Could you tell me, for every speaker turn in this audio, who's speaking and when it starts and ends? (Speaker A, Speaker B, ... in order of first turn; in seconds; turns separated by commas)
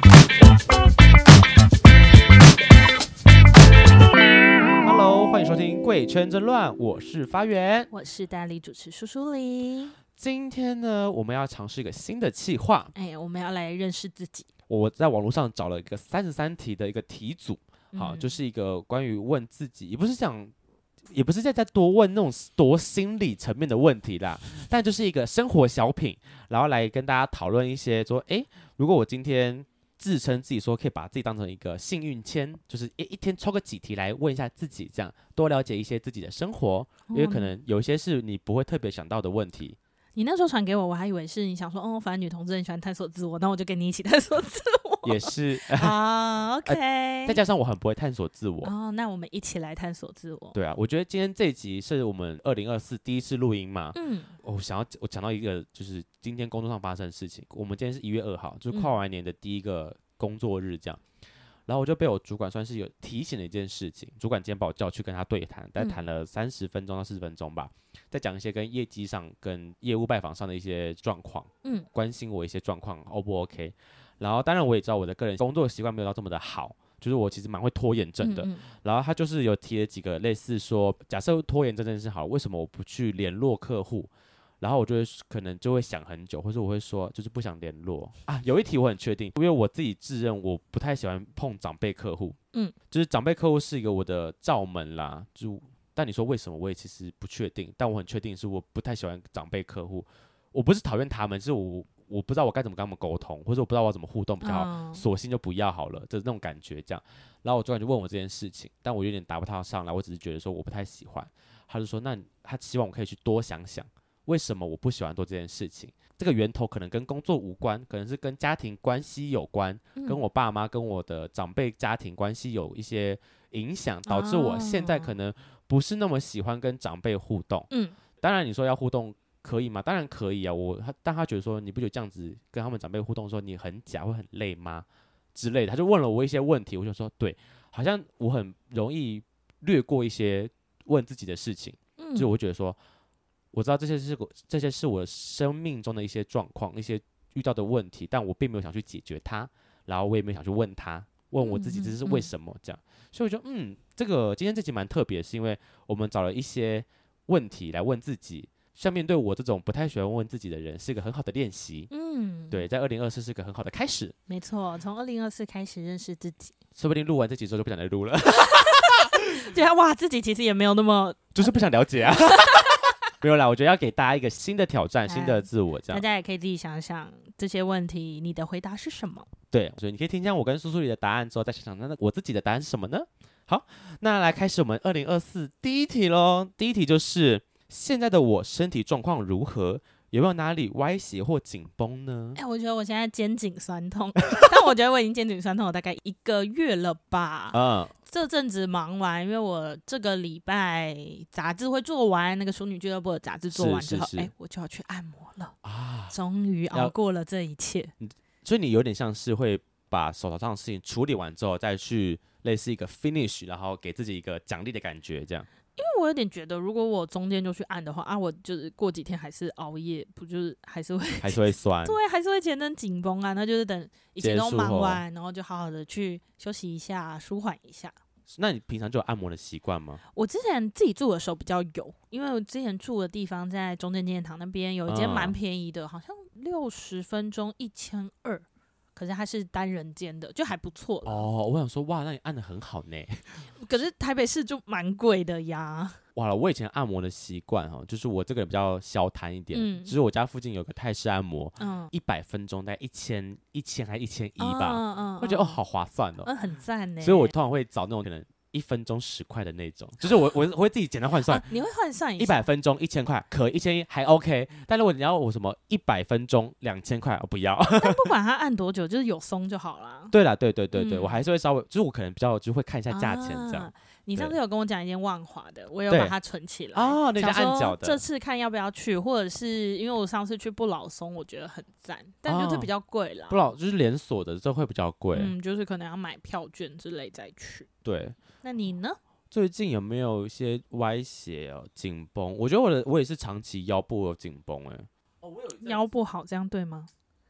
Speaker A: 4.8-7.9, Speaker B: 7.9-9.9, Speaker A: 10.2-12.9, Speaker B: 12.9-14.5, Speaker A: 14.7-20.5, Speaker B: 17.9-18.4, Speaker A: 21.1-39.8, Speaker B: 37.1-37.5, Speaker B: 40.1-47.4, Speaker A: 45.0-46.0, Speaker A: 46.6-48.7, Speaker B: 48.6-50.5, Speaker A: 50.5-61.0, Speaker B: 53.9-54.3, Speaker A: 61.7-92.4, Speaker B: 78.2-78.6, Speaker A: 92.9-127.7, Speaker B: 104.4-105.0, Speaker B: 120.0-120.2, Speaker B: 124.1-125.1, Speaker B: 127.7-128.0, Speaker A: 128.2-142.8, Speaker B: 142.0-142.3, Speaker A: 143.5-161.9, Speaker B: 151.4-152.3, Speaker B: 161.9-162.7, Speaker A: 162.5-164.1, Speaker B: 164.3-166.5, Speaker A: 166.8-169.2, Speaker B: 169.2-171.7, Speaker A: 171.3-176.0, Speaker B: 172.3-172.7, Speaker B: 175.1-179.3, Speaker A: 179.5-192.4, Speaker B: 192.3-205.5, Speaker A: 197.5-197.9, Speaker A: 203.5-204.3, Speaker A: 205.6-206.2, Speaker B: 206.1-207.9, Speaker A: 208.0-215.5, Speaker B: 215.8-227.9, Speaker A: 221.2-222.0, Speaker A: 224.2-225.0, Speaker A: 228.3-230.0, Speaker B: 230.1-241.2, Speaker A: 234.9-235.3, Speaker A: 241.0-243.5, Speaker B: 243.5-246.0, Speaker A: 246.1-256.3, Speaker B: 249.5-249.9, Speaker B: 251.6-251.9, Speaker B: 254.4-255.6, Speaker B: 256.2-257.3, Speaker A: 257.0-261.5, Speaker B: 261.3-262.5, Speaker A: 262.2-268.1, Speaker B: 267.7-270.1, Speaker A: 270.1-274.4, Speaker B: 270.7-271.2, Speaker B: 272.9-283.4, Speaker A: 275.9-276.1, Speaker A: 276.7-278.0, Speaker A: 282.2-282.7, Speaker A: 283.3-285.3, Speaker B: 285.1-287.7, Speaker A: 287.8-288.2, Speaker B: 288.4-289.0, Speaker A: 289.3-295.8, Speaker B: 295.6-296.9